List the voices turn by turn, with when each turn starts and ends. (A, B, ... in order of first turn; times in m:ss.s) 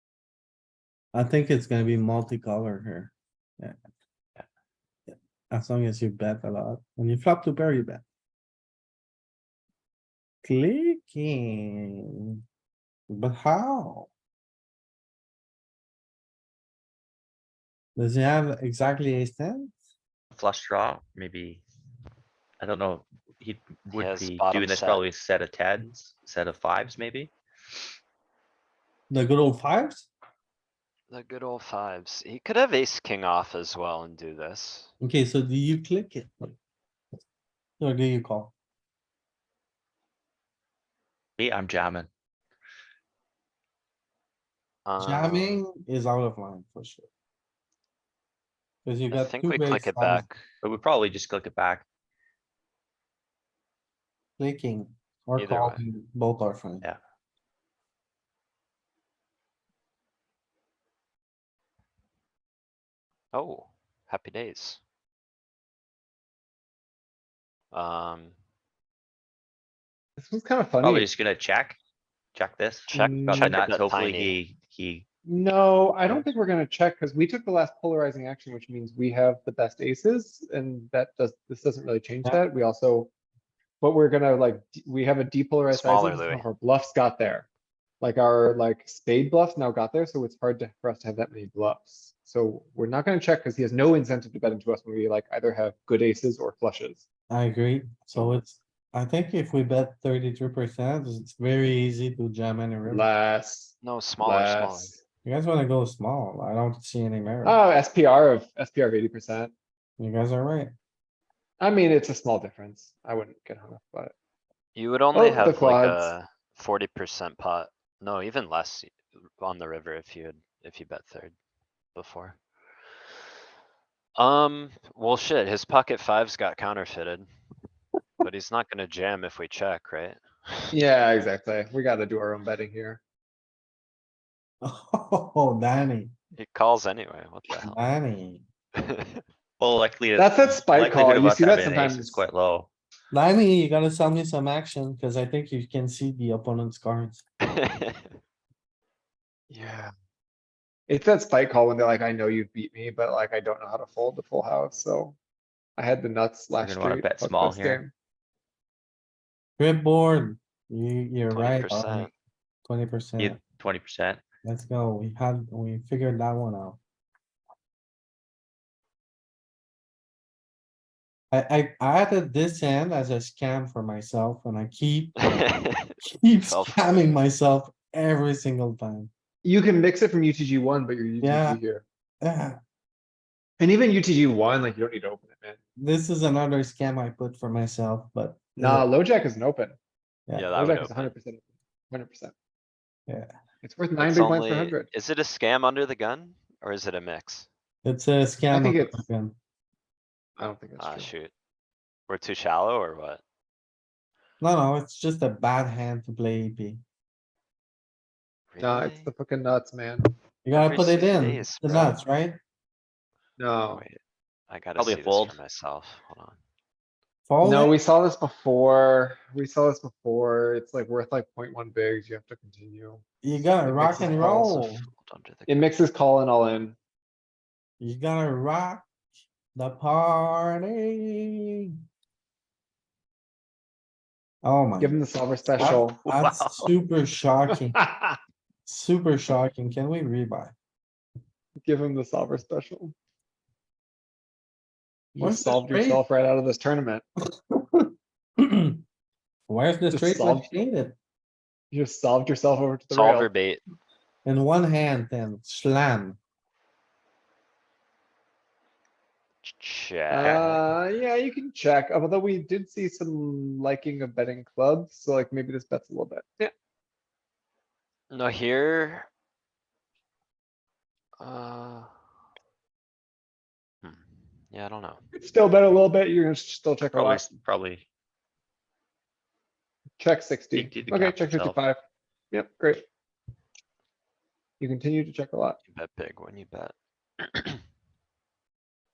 0:01.1-0:03.7 A
0:05.1-0:08.0 A
0:10.4-0:12.3 A
0:13.1-0:14.1 A
0:18.0-0:19.8 A
0:20.3-0:21.6 B
0:22.6-0:27.3 B
0:23.9-0:25.0 C
0:29.1-0:30.1 A
0:31.1-0:34.9 C
0:35.0-0:36.5 A
0:37.8-0:38.5 A
0:41.4-0:42.1 B
0:44.8-0:45.6 C
0:45.0-0:47.1 A
0:48.8-0:50.3 A
0:49.1-0:50.4 C
0:50.6-0:51.8 B
0:54.4-0:56.9 A
0:55.4-0:55.8 C
1:03.3-1:04.8 C
1:07.7-1:08.3 C
1:10.2-1:11.1 D
1:10.8-1:11.8 B
1:12.3-1:15.0 B
1:12.9-1:13.5 D
1:12.9-1:14.4 C
1:15.2-1:23.1 D
1:23.8-1:27.5 D
1:25.7-1:26.4 C
1:28.0-1:37.0 D
1:37.3-1:43.0 A
1:42.8-1:45.0 D
1:43.8-1:44.9 C
1:45.2-1:47.6 A
1:47.4-1:49.5 D
1:50.0-1:50.7 A
1:51.6-1:54.1 D
1:54.7-2:01.3 C
1:55.1-1:56.1 D
2:01.9-2:02.4 C
2:04.2-2:07.3 C
2:08.2-2:10.7 C
2:10.7-2:13.0 D
2:14.6-2:16.1 A
2:16.3-2:17.8 C
2:17.6-2:18.4 A
2:18.8-2:19.2 C
2:19.6-2:22.7 B
2:20.2-2:22.2 D
2:23.1-2:27.2 A
2:27.5-2:28.1 C
2:29.5-2:29.9 D
2:30.9-2:35.2 D
2:35.8-2:37.9 D
2:36.6-2:37.8 B
2:39.6-2:42.1 A
2:41.3-2:42.1 C
2:42.6-2:43.4 A
2:43.2-2:44.2 B
2:44.4-2:46.8 A
2:51.3-2:55.3 A
2:55.2-2:57.2 C
2:56.0-2:59.1 A
2:59.4-3:01.8 D
3:01.2-3:01.6 A
3:02.2-3:02.6 A
3:03.6-3:05.6 D
3:05.8-3:08.8 A
3:08.6-3:09.8 D
3:10.3-3:11.1 C
3:10.5-3:12.3 D
3:13.6-3:14.9 D
3:14.0-3:17.5 C
3:17.8-3:19.4 A
3:18.5-3:19.0 D
3:20.4-3:21.1 D
3:20.8-3:21.3 C
3:22.1-3:23.2 C
3:24.4-3:26.8 A
3:28.5-3:29.1 C
3:28.6-3:30.1 D
3:30.4-3:32.4 A
3:30.5-3:32.0 C
3:33.4-3:33.8 D
3:33.7-3:36.4 C
3:34.8-3:35.4 B
3:37.3-3:37.8 A
3:37.4-3:43.0 D
3:43.2-3:44.8 A
3:43.7-3:44.5 D
3:43.8-3:45.7 C
3:45.5-3:46.8 D
3:47.8-3:48.8 A
3:49.5-3:51.4 A
3:54.4-3:55.0 A
3:54.8-3:56.0 D
3:55.6-3:57.8 A
3:55.6-3:56.7 B
3:57.5-3:58.2 D
3:58.6-4:00.5 A
4:01.6-4:02.9 D
4:05.1-4:06.0 A
4:05.2-4:07.0 D
4:07.5-4:08.8 A
4:09.5-4:11.0 A
4:09.9-4:10.5 D
4:11.7-4:13.3 D
4:12.9-4:13.6 C
4:14.2-4:16.2 A
4:19.4-4:20.6 C
4:20.1-4:26.5 D
4:28.1-4:29.1 C
4:31.2-4:31.9 C
4:33.8-4:35.0 C
4:35.1-4:37.3 D
4:36.9-4:37.8 B
4:40.0-4:41.8 D
4:40.5-4:41.6 B
4:42.3-4:42.8 D
4:44.6-4:45.6 D
4:45.7-4:47.6 C